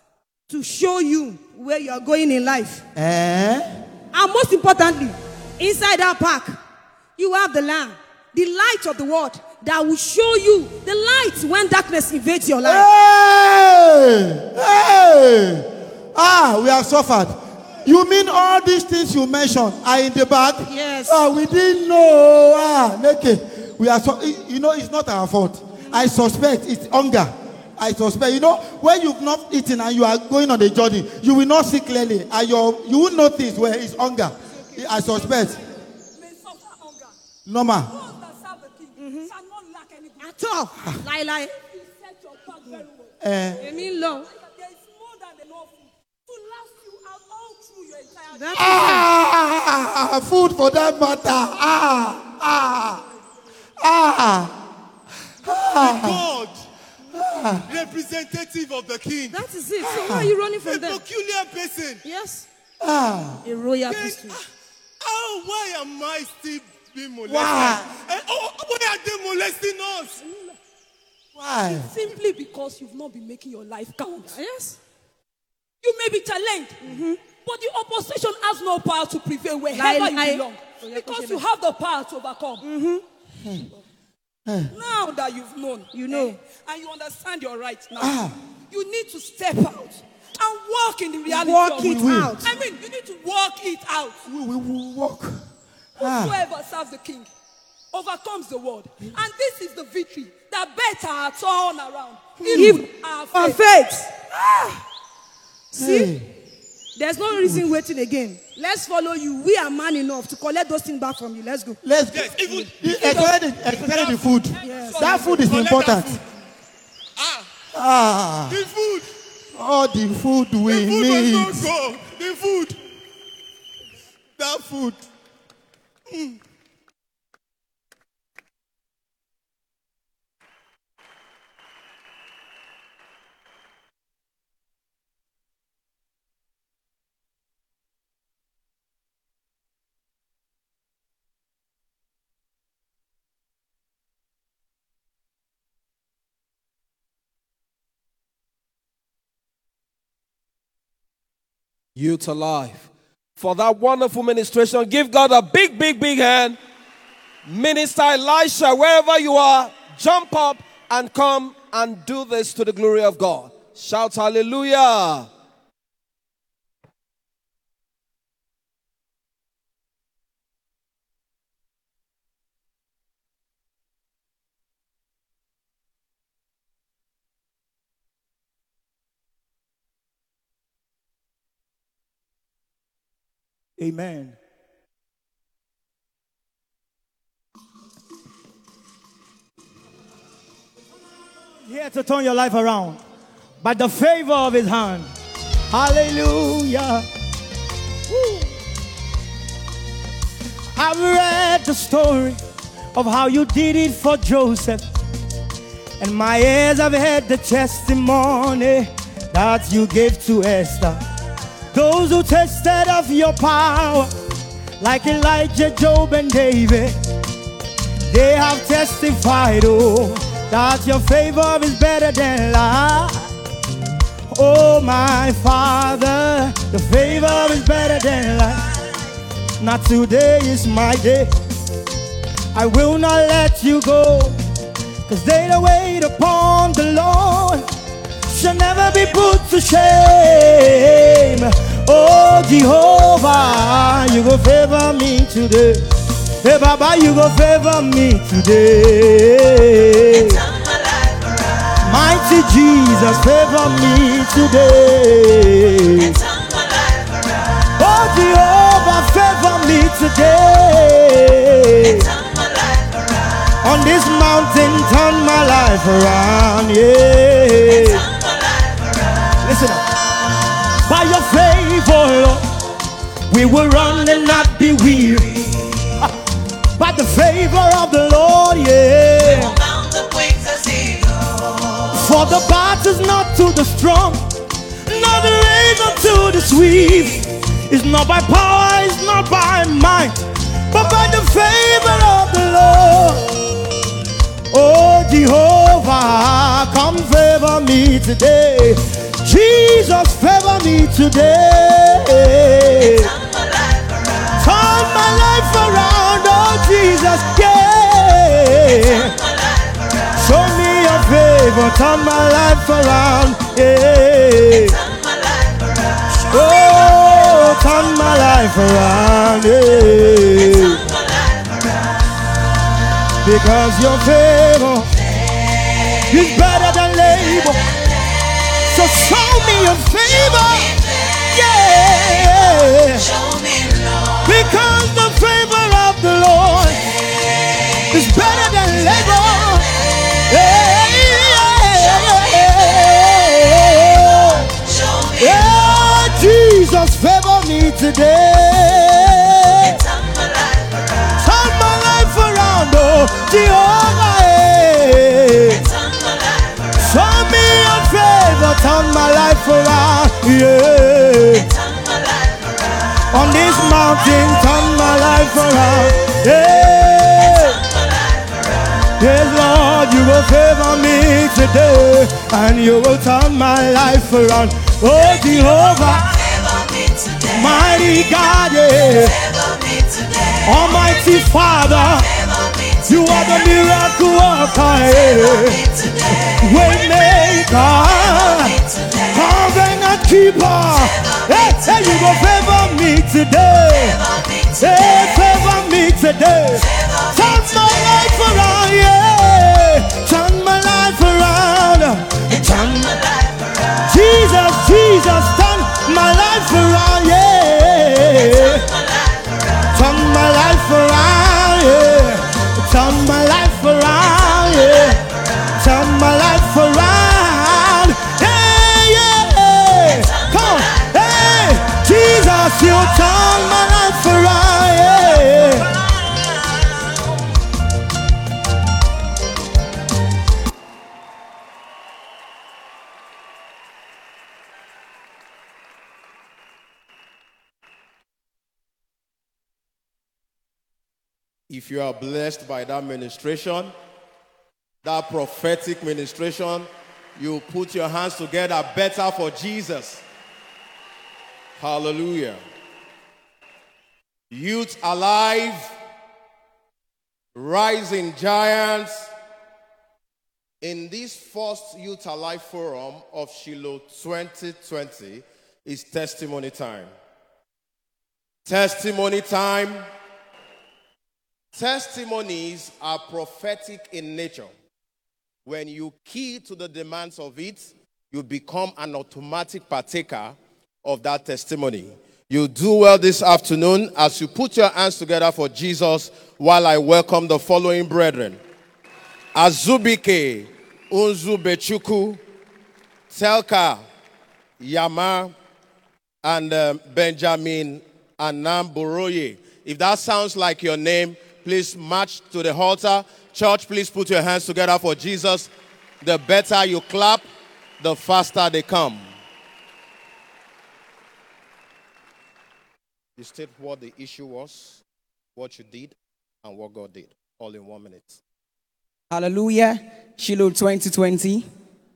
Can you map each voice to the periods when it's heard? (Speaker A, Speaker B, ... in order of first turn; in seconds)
Speaker A: 0.5-2.8, 4.1-6.6, 7.2-12.8, 20.7-21.2, 39.0-39.3, 40.2-41.5, 43.6-44.3, 48.3-49.1, 59.3-61.0, 62.0-62.5, 63.4-64.4, 74.3-74.8, 76.8-77.2, 79.7-81.4, 82.6-83.0, 85.9-86.4, 91.3-92.4, 102.5-102.8, 103.3-104.1, 105.8-106.1, 107.0-111.8, 114.6-115.1
Speaker B: 2.9-3.6, 12.6-35.6, 37.5-37.9, 43.2-43.6, 48.5-53.0, 53.8-54.5, 55.4-56.3, 57.1-57.6, 59.8-60.3, 62.8-63.4, 67.2-67.9, 71.3-71.9, 84.5-84.7, 88.0-88.3, 91.6-92.4, 94.2-95.4, 96.0-96.4, 102.4-102.8, 104.4-104.7, 105.7-106.2, 107.3-107.7, 111.8-116.2, 117.7-118.6, 119.5-121.7
Speaker C: 34.5-37.1, 37.8-40.3, 41.5-49.0, 70.2-70.5, 71.7-74.4, 75.8-82.7, 84.7-94.2, 96.0-97.3, 97.9-103.7, 112.4-115.7
Speaker D: 55.8-56.5, 57.7-59.3, 60.7-62.0, 63.9-64.3, 65.1-67.7, 68.3-70.0, 183.8-184.3, 191.6-193.0, 193.6-195.1, 195.7-197.0, 198.1-198.4, 200.8-202.4, 202.9-204.8, 206.0-211.0, 211.7-214.1, 214.8-216.9, 218.1-223.2, 224.3-228.6, 229.6-231.3, 232.5-234.3, 235.1-237.6, 238.3-245.8, 246.4-250.4, 251.8-256.2, 257.8-262.1, 263.6-268.0, 269.4-269.8, 270.9-272.5, 273.3-275.6, 276.8-279.6, 281.9-284.3, 284.9-293.4, 294.5-303.1, 304.4-309.1, 310.2-314.7, 316.3-320.8, 323.2-324.9, 326.1-327.6, 328.7-330.8, 331.3-333.1, 334.2-336.8, 337.9-339.7, 340.3-344.4, 345.2-349.8, 351.2-355.6, 356.8-361.5, 363.1-367.6, 369.0-376.1, 377.3-379.2, 380.4-382.1, 382.8-385.7, 386.4-388.6, 389.1-394.0, 394.6-402.9, 403.8-408.6, 409.7-415.0, 415.6-425.7
Speaker E: 151.9-156.6, 157.4-165.3
Speaker F: 441.5-443.7, 444.8-450.0, 451.6-452.4, 454.3-455.7, 457.3-459.1, 460.6-466.9, 468.4-469.8, 471.5-474.5, 475.4-488.4, 489.3-492.2, 493.1-493.8, 494.6-495.3, 496.2-507.3, 507.8-509.1, 513.2-514.8, 515.4-518.2
Speaker G: 519.1-521.5